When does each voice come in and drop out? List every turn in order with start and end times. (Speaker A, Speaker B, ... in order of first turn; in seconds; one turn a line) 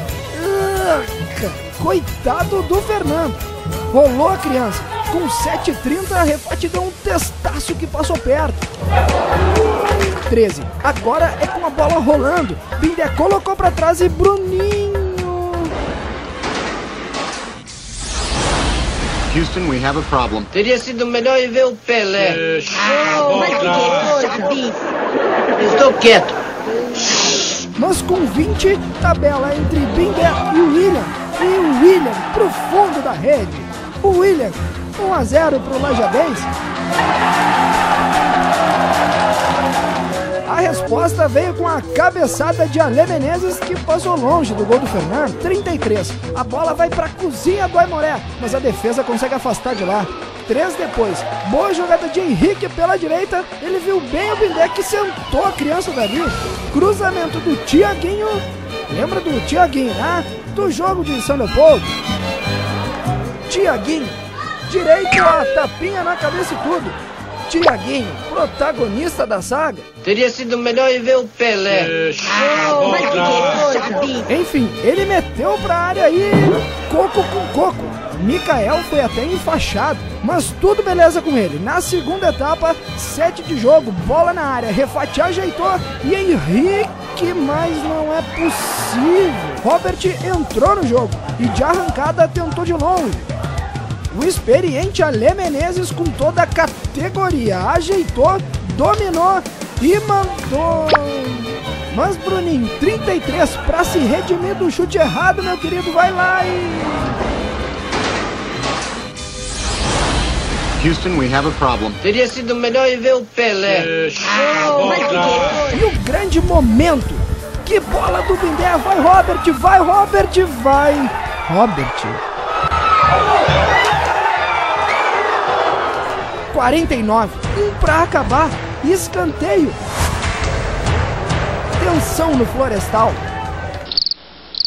Speaker A: 0.3-8.6
Speaker A: 10.3-15.7
Speaker B: 19.3-20.5
Speaker C: 20.5-23.8
Speaker D: 23.1-24.7
Speaker C: 25.6-26.4
Speaker A: 27.8-36.5
Speaker A: 40.5-62.0
Speaker A: 63.5-69.9
Speaker C: 70.0-73.8
Speaker D: 72.5-74.2
Speaker A: 74.3-93.3
Speaker A: 94.1-107.2
Speaker B: 110.8-112.0
Speaker C: 112.0-115.5
Speaker D: 114.6-115.7
Speaker A: 115.6-122.2
Speaker A: 126.5-129.8
Speaker A: 131.8-133.2